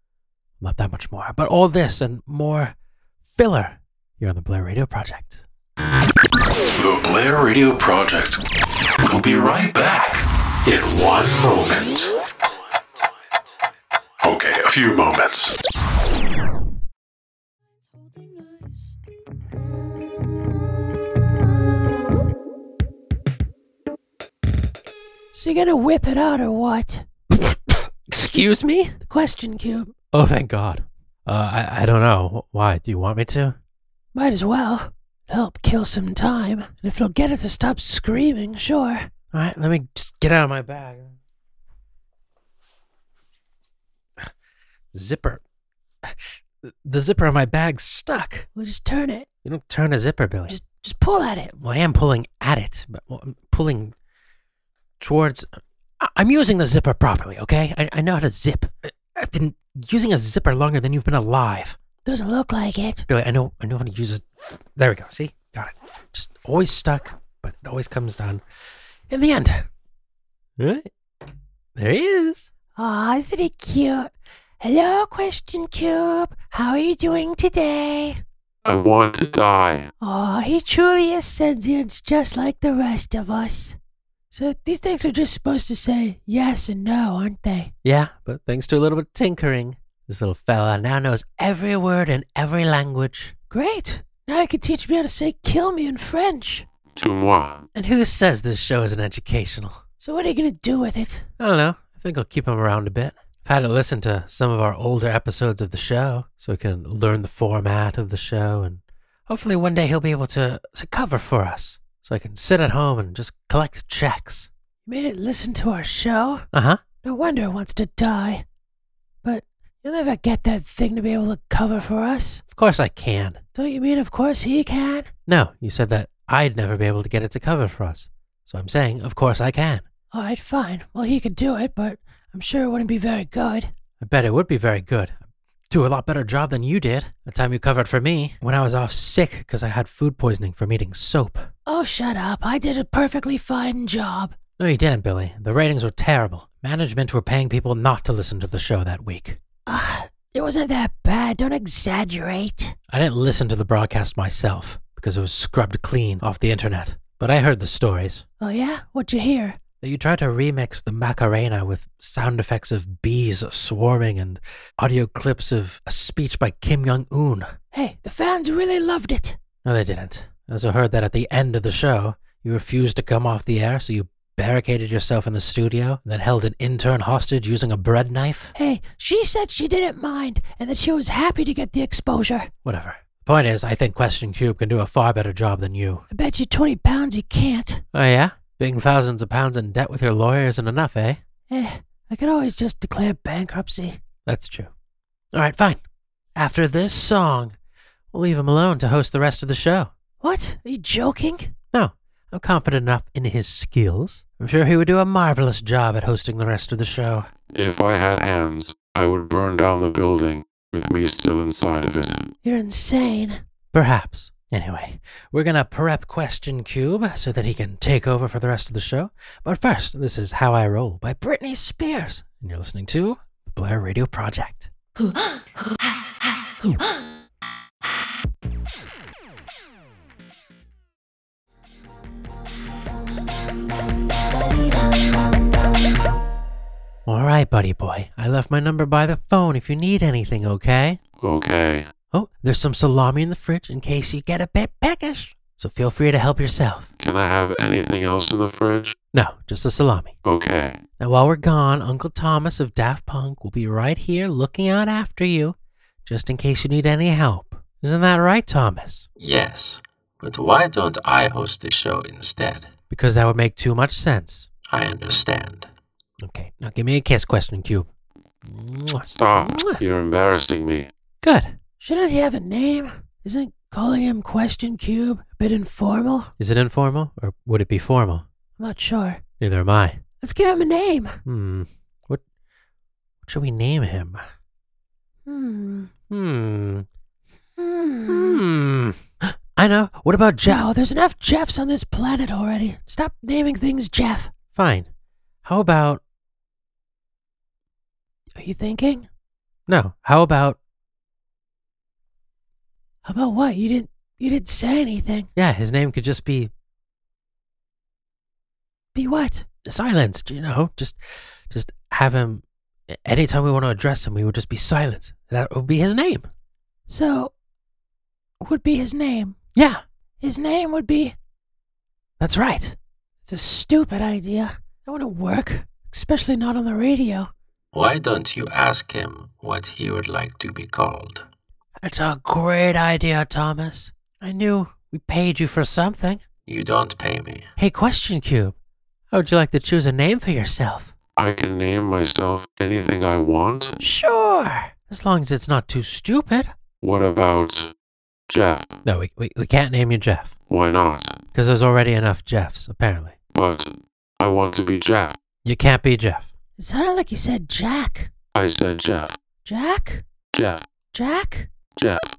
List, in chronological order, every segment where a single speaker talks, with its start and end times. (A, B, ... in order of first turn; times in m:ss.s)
0:00.6-0:02.7 A
0:03.3-0:05.4 A
0:06.7-0:08.4 B
0:09.0-0:12.2 B
0:14.2-0:15.6 B
0:25.3-0:27.0 C
0:27.4-0:29.0 A
0:29.0-0:29.9 C
0:30.1-0:33.6 A
0:34.1-0:39.1 C
0:39.3-0:41.2 A
0:44.9-0:45.4 A
0:46.0-0:48.5 A
0:48.5-0:49.3 C
0:49.4-0:50.6 A
0:50.5-0:51.5 C
0:51.5-0:53.9 A
0:55.0-1:01.8 A
1:02.0-1:03.0 C
1:03.1-1:08.4 A
1:09.1-1:09.7 A
1:10.6-1:10.9 A
1:11.8-1:12.5 A
1:12.8-1:18.2 C
1:18.6-1:19.9 D
1:20.0-1:23.8 C
1:24.3-1:27.7 C
1:27.8-1:33.3 A
1:33.5-1:36.6 C
1:36.9-1:37.6 D
1:37.7-1:39.8 A
1:40.0-1:41.3 C
1:41.4-1:54.5 A
1:54.8-1:56.4 C
1:56.5-1:56.8 A
1:57.0-1:58.4 C
1:59.2-2:02.4 C
2:02.5-2:03.4 A
2:03.5-2:05.1 C
2:05.3-2:09.8 A
2:10.1-2:13.7 C
2:14.0-2:15.2 A
2:15.7-2:21.5 A
2:21.6-2:24.3 C
2:24.6-2:29.4 A
2:29.6-2:32.8 C
2:32.9-2:38.2 A
2:38.4-2:39.6 C
2:39.8-2:47.6 A
2:47.7-2:49.4 C
2:49.6-2:58.5 A
2:58.5-3:02.5 C
3:02.6-3:06.0 A
3:06.1-3:07.8 C
3:07.9-3:11.2 A
3:11.5-3:14.0 C
3:14.2-3:14.7 A
3:15.3-3:15.8 A
3:16.3-3:17.6 A
3:18.1-3:19.9 A
3:20.2-3:21.5 C
3:21.7-3:27.3 A
3:27.5-3:32.3 D
3:32.4-3:33.4 C
3:33.7-3:44.7 A
3:57.0-4:01.0 A
4:01.2-4:01.9 D
4:02.1-4:06.9 A
4:07.0-4:09.0 D
4:09.1-4:10.1 A
4:10.2-4:10.8 D
4:11.0-4:19.1 A
4:19.2-4:22.7 E
4:22.9-4:24.5 A
4:24.7-4:25.7 E
4:26.2-4:27.9 A
4:28.4-4:29.8 A
4:29.1-4:30.9 D
4:31.2-4:31.6 A
4:31.8-4:36.3 C
4:36.4-4:38.2 A
4:38.6-4:39.2 C
4:39.4-4:40.0 A
4:40.2-4:41.2 C
4:41.2-4:42.2 A
4:43.2-4:44.2 A
4:45.2-4:45.9 C
4:46.1-4:46.8 A
4:47.6-4:48.4 C
4:48.0-4:50.6 A
4:50.4-4:54.3 C
4:54.5-4:54.9 A
4:55.4-4:56.0 A
4:58.4-4:59.1 C
4:59.7-5:00.6 A
5:03.0-5:05.3 C
5:05.3-5:06.5 A
5:08.9-5:09.5 C
5:09.6-5:16.3 A
5:16.9-5:17.3 C
5:18.4-5:19.4 C
5:19.5-5:19.8 A
5:20.2-5:21.2 C
5:22.2-5:22.8 A
5:23.2-5:27.3 C
5:27.7-5:31.2 E
5:31.8-5:36.2 A
5:36.4-5:37.5 E
5:37.6-5:38.6 A
5:39.1-5:40.9 A
5:41.2-5:43.8 D
5:43.8-5:44.7 C
5:44.9-5:46.5 A
5:46.8-5:47.7 D
5:48.3-5:48.7 D
5:48.8-5:50.3 A
5:50.5-5:51.2 D
5:51.3-5:53.2 A
5:53.3-5:55.2 D
5:55.4-5:56.3 A
5:56.6-5:58.1 C
5:58.3-5:59.2 D
5:59.4-6:00.0 C
6:00.3-6:00.6 D
6:00.9-6:01.5 C
6:01.8-6:02.0 D